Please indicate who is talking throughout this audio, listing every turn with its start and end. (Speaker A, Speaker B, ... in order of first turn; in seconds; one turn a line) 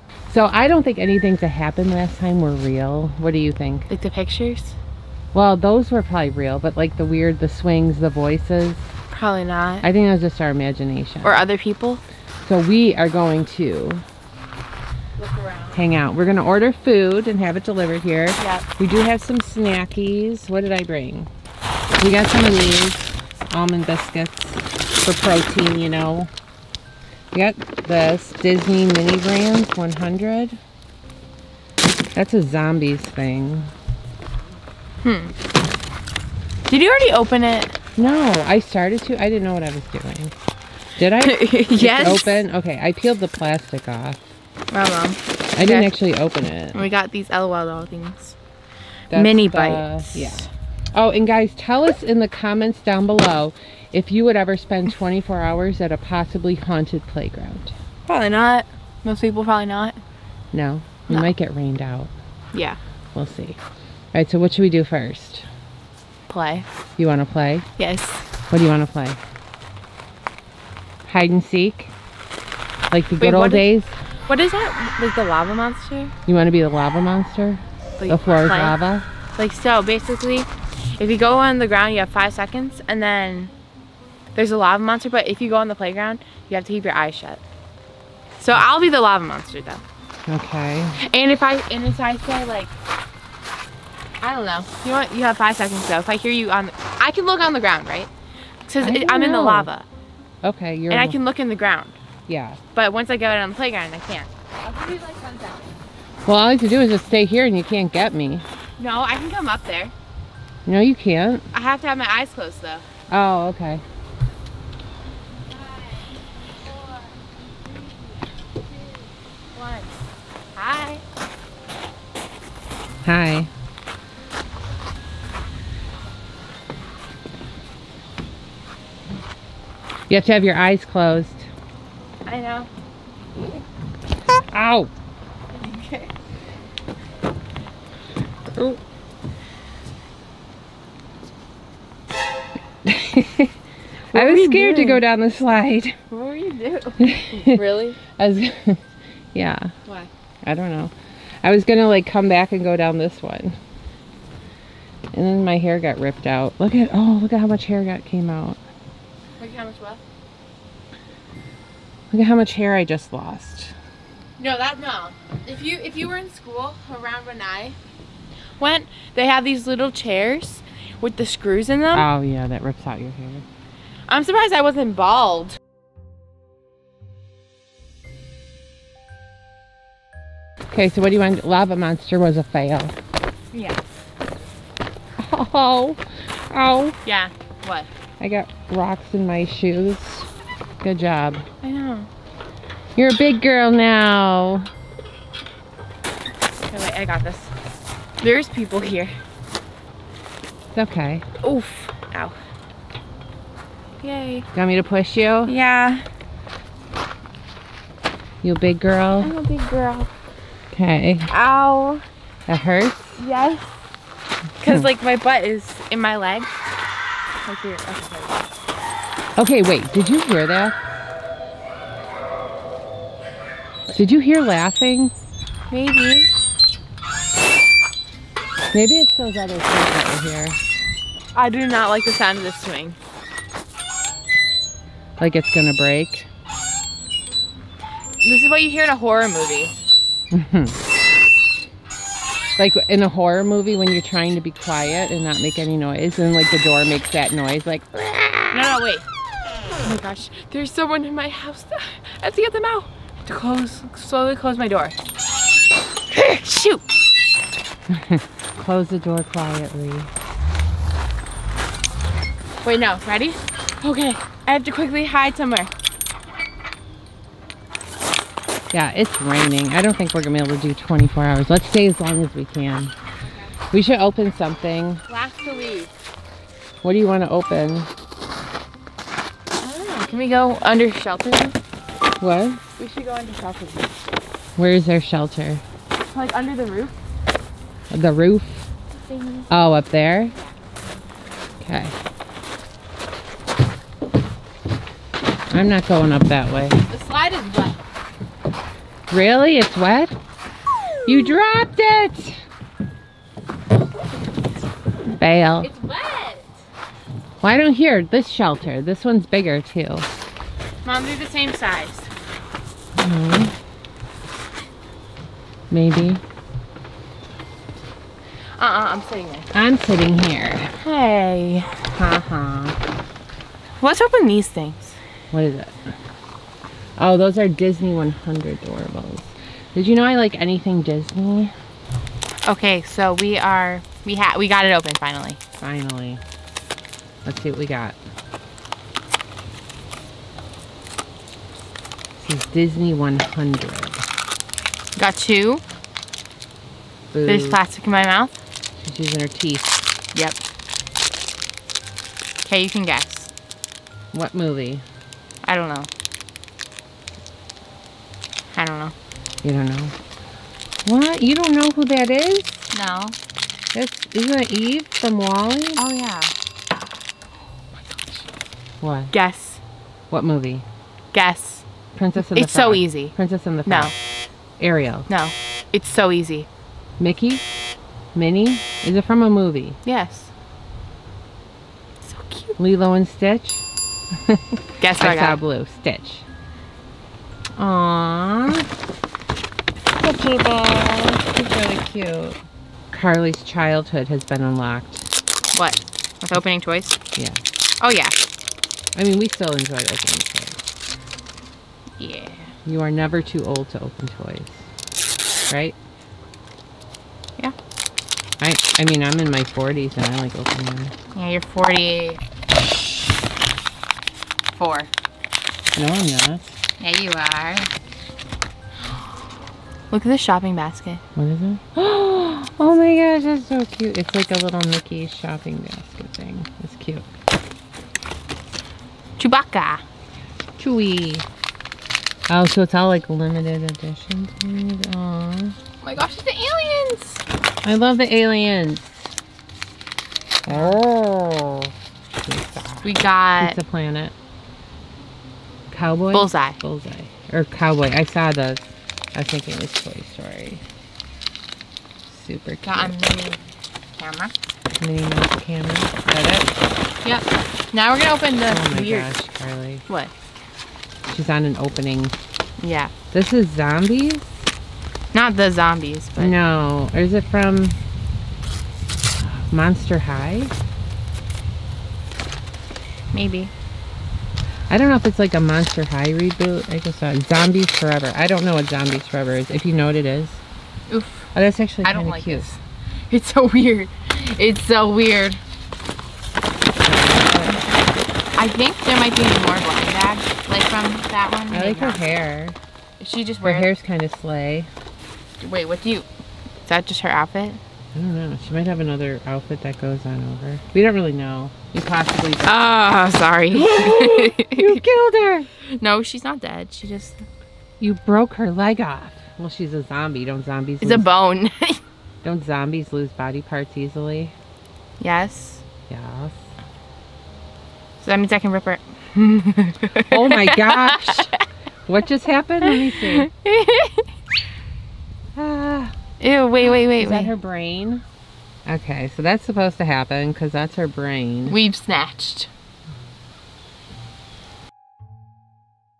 Speaker A: 0.3-3.9
Speaker B: 3.9-4.8
Speaker A: 5.3-8.9
Speaker B: 9.1-9.9
Speaker A: 9.8-11.5
Speaker B: 11.2-12.0
Speaker A: 12.4-14.0
Speaker B: 15.2-15.8
Speaker A: 15.7-21.3
Speaker B: 18.4-18.6
Speaker A: 22.0-26.3
Speaker A: 27.3-30.6
Speaker A: 32.1-33.7
Speaker B: 35.0-35.3
Speaker B: 36.7-38.6
Speaker A: 38.0-40.3
Speaker A: 41.0-44.2
Speaker B: 41.2-42.5
Speaker B: 44.7-45.9
Speaker A: 45.6-46.9
Speaker B: 46.7-48.4
Speaker A: 49.1-57.7
Speaker B: 49.1-50.5
Speaker B: 58.1-60.0
Speaker A: 60.5-62.1
Speaker B: 61.1-61.3
Speaker B: 62.5-62.8
Speaker A: 63.1-63.6
Speaker A: 64.1-65.5
Speaker B: 66.3-66.7
Speaker A: 67.0-67.7
Speaker B: 67.8-68.3
Speaker A: 68.5-69.2
Speaker A: 71.1-71.9
Speaker A: 72.9-73.9
Speaker B: 73.2-73.7
Speaker B: 74.3-76.1
Speaker A: 76.3-79.1
Speaker B: 78.0-78.8
Speaker B: 79.4-83.5
Speaker B: 84.3-87.4
Speaker B: 88.4-89.8
Speaker A: 90.3-91.0
Speaker B: 91.0-92.7
Speaker B: 94.2-98.1
Speaker B: 98.7-99.9
Speaker A: 98.8-99.7
Speaker A: 100.4-101.2
Speaker B: 100.9-102.0
Speaker A: 102.3-102.6
Speaker B: 102.7-105.8
Speaker A: 106.3-108.5
Speaker B: 108.8-109.9
Speaker A: 110.7-111.5
Speaker B: 111.5-112.8
Speaker A: 113.1-113.8
Speaker B: 115.6-115.9
Speaker B: 119.5-120.0
Speaker B: 120.5-121.0
Speaker A: 123.0-123.5
Speaker A: 130.1-131.5
Speaker B: 132.3-132.7
Speaker A: 134.5-134.9
Speaker B: 135.5-136.1
Speaker A: 142.8-143.5
Speaker B: 144.1-145.0
Speaker A: 144.1-146.0
Speaker B: 146.1-148.0
Speaker A: 147.0-147.6
Speaker A: 148.2-148.8
Speaker A: 149.3-149.7
Speaker A: 150.4-153.6
Speaker A: 155.1-158.6
Speaker B: 159.4-160.0
Speaker A: 162.1-163.8
Speaker B: 164.4-167.8
Speaker B: 168.6-172.1
Speaker A: 171.9-173.4
Speaker B: 174.1-175.6
Speaker A: 180.7-182.9
Speaker B: 183.5-183.8
Speaker A: 185.2-187.0
Speaker B: 187.1-187.9
Speaker A: 188.2-190.3
Speaker A: 190.8-191.5
Speaker B: 191.6-192.1
Speaker A: 193.0-194.7
Speaker B: 196.7-197.5
Speaker B: 198.2-199.2
Speaker A: 200.7-201.3
Speaker B: 201.4-202.4
Speaker B: 204.0-204.5
Speaker A: 204.5-205.5
Speaker B: 205.5-206.1
Speaker A: 208.4-209.3
Speaker B: 209.2-210.1
Speaker A: 210.7-211.3
Speaker B: 211.3-212.0
Speaker A: 212.5-213.2
Speaker B: 213.2-213.8
Speaker B: 214.6-216.5
Speaker B: 217.4-218.5
Speaker A: 219.4-220.8
Speaker A: 223.9-225.1
Speaker B: 225.7-226.3
Speaker A: 228.7-230.6
Speaker B: 231.3-233.0
Speaker A: 235.2-236.3
Speaker B: 238.2-239.8
Speaker A: 240.3-240.8
Speaker A: 242.6-248.4
Speaker B: 248.5-249.1
Speaker B: 249.8-255.0
Speaker B: 256.1-256.9
Speaker A: 257.9-260.1
Speaker B: 262.6-265.7
Speaker A: 268.7-272.9
Speaker A: 273.7-275.0
Speaker B: 275.1-275.9
Speaker A: 276.8-277.9
Speaker B: 279.6-281.6
Speaker A: 282.2-282.6
Speaker B: 282.8-284.0
Speaker A: 284.6-285.6
Speaker B: 286.1-287.0
Speaker A: 287.9-288.7
Speaker B: 289.1-289.5
Speaker A: 289.5-290.4
Speaker A: 291.6-292.0
Speaker A: 295.5-296.8
Speaker B: 296.9-297.8
Speaker A: 299.1-300.1
Speaker A: 301.1-302.4
Speaker A: 305.1-305.7
Speaker B: 305.6-306.5
Speaker A: 307.4-310.1
Speaker B: 310.8-312.1
Speaker A: 313.0-313.6
Speaker A: 315.7-316.2
Speaker B: 318.6-319.5
Speaker A: 319.5-320.7
Speaker B: 320.8-321.8
Speaker A: 321.9-322.8
Speaker B: 323.8-325.0
Speaker A: 325.3-325.9
Speaker A: 327.0-331.5
Speaker B: 332.5-335.4
Speaker A: 335.6-336.2
Speaker A: 337.2-338.0
Speaker A: 342.2-344.1
Speaker B: 345.0-345.6
Speaker A: 347.1-347.6
Speaker B: 347.3-348.4
Speaker A: 348.8-349.8
Speaker B: 350.1-350.4
Speaker B: 352.4-353.3
Speaker A: 354.1-354.8
Speaker B: 355.4-355.9
Speaker B: 358.5-358.9
Speaker A: 359.4-359.9
Speaker A: 360.9-362.7
Speaker B: 362.7-363.2
Speaker A: 363.7-365.8
Speaker B: 365.8-366.3
Speaker B: 367.8-368.2
Speaker A: 368.8-369.1
Speaker B: 369.1-369.6
Speaker A: 370.1-370.6
Speaker B: 371.1-371.6
Speaker A: 372.0-373.9
Speaker B: 372.2-373.1
Speaker B: 373.7-373.9
Speaker A: 374.6-375.1
Speaker B: 375.1-376.5
Speaker A: 377.0-377.4
Speaker A: 378.1-379.8
Speaker B: 379.9-380.3
Speaker B: 382.0-382.6
Speaker A: 382.6-383.6
Speaker A: 384.1-386.2
Speaker B: 384.8-385.4
Speaker A: 387.6-388.7
Speaker A: 390.0-392.4
Speaker A: 392.9-395.1
Speaker B: 395.5-397.0
Speaker A: 397.2-397.4
Speaker B: 397.8-398.2
Speaker A: 398.9-400.6
Speaker B: 402.0-402.5
Speaker A: 402.7-404.7
Speaker A: 405.5-405.8
Speaker A: 408.4-410.9
Speaker B: 411.1-412.2
Speaker B: 414.6-414.9
Speaker A: 415.7-416.4
Speaker B: 416.8-417.7
Speaker B: 419.9-421.0
Speaker A: 421.2-427.1
Speaker B: 429.2-429.8
Speaker A: 430.6-431.3
Speaker A: 432.3-435.6
Speaker B: 435.8-437.2
Speaker A: 437.6-439.0
Speaker A: 440.5-441.7
Speaker B: 440.5-440.8
Speaker A: 442.2-444.1
Speaker B: 442.8-443.6
Speaker A: 445.7-450.6
Speaker B: 446.1-446.6
Speaker A: 452.1-453.0
Speaker B: 452.6-453.4
Speaker B: 454.0-454.3
Speaker A: 454.8-456.6
Speaker B: 457.0-459.1
Speaker A: 458.5-459.9
Speaker A: 461.1-462.1
Speaker B: 462.6-462.9
Speaker A: 463.1-464.4
Speaker B: 465.1-466.4
Speaker A: 466.2-467.8
Speaker A: 469.2-470.5
Speaker B: 473.1-473.5
Speaker A: 474.7-480.4
Speaker B: 480.9-481.3
Speaker A: 481.3-482.5
Speaker B: 481.8-485.4
Speaker A: 486.8-487.7
Speaker B: 488.4-492.0
Speaker A: 491.5-492.6
Speaker B: 493.0-493.7
Speaker A: 493.4-494.7
Speaker B: 495.4-496.1
Speaker B: 496.7-497.6
Speaker A: 497.9-502.6
Speaker B: 502.4-504.8
Speaker A: 503.5-505.5
Speaker B: 505.7-507.3
Speaker A: 507.8-511.1
Speaker B: 510.8-511.8
Speaker A: 512.2-514.3
Speaker B: 515.0-515.6
Speaker A: 515.9-516.4
Speaker B: 518.0-521.4
Speaker A: 520.1-521.3
Speaker A: 521.9-523.3
Speaker B: 522.6-524.1
Speaker A: 525.4-526.0
Speaker B: 526.2-527.3
Speaker A: 526.7-528.0
Speaker A: 528.7-531.6
Speaker B: 531.5-532.5